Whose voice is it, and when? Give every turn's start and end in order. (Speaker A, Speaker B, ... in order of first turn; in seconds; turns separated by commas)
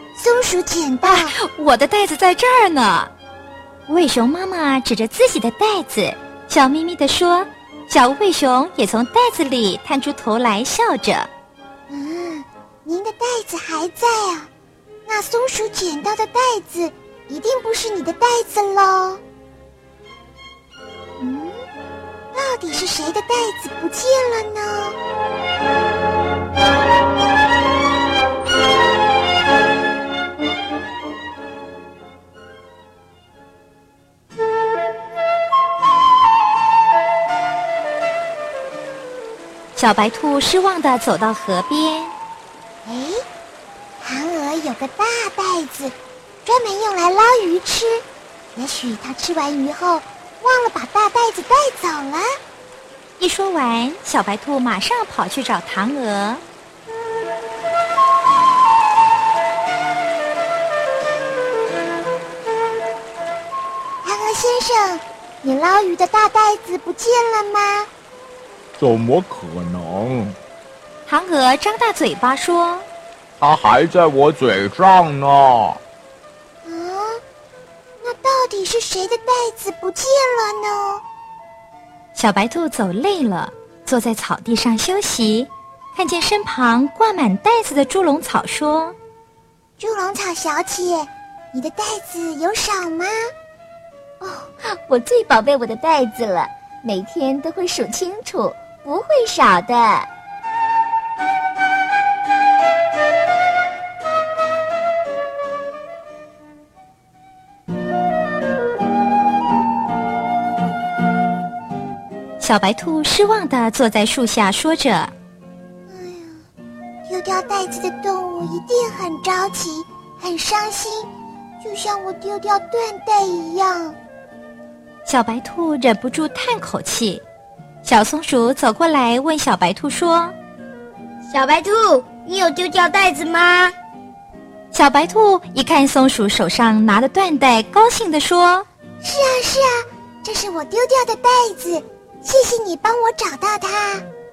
Speaker A: 0.2-1.4, Speaker B: 1.0-3.1, Speaker B: 3.9-11.3, Speaker A: 11.9-14.5, Speaker A: 15.1-19.2, Speaker A: 21.2-21.6, Speaker A: 22.3-25.0, Speaker B: 39.8-42.1, Speaker A: 42.9-43.2, Speaker A: 44.0-45.9, Speaker A: 46.5-48.0, Speaker A: 48.5-52.3, Speaker B: 53.2-56.4, Speaker A: 64.0-67.9, Speaker C: 68.8-70.4, Speaker B: 71.1-72.9, Speaker C: 73.4-75.8, Speaker A: 76.7-77.2, Speaker A: 78.0-81.0, Speaker B: 82.2-89.0, Speaker A: 89.8-93.2, Speaker D: 94.2-100.1, Speaker B: 112.4-115.1, Speaker A: 115.9-116.4, Speaker A: 117.1-121.1, Speaker A: 121.6-124.0, Speaker B: 125.1-127.2, Speaker B: 127.8-130.3, Speaker E: 131.3-133.7, Speaker B: 134.7-138.7, Speaker A: 139.0-144.1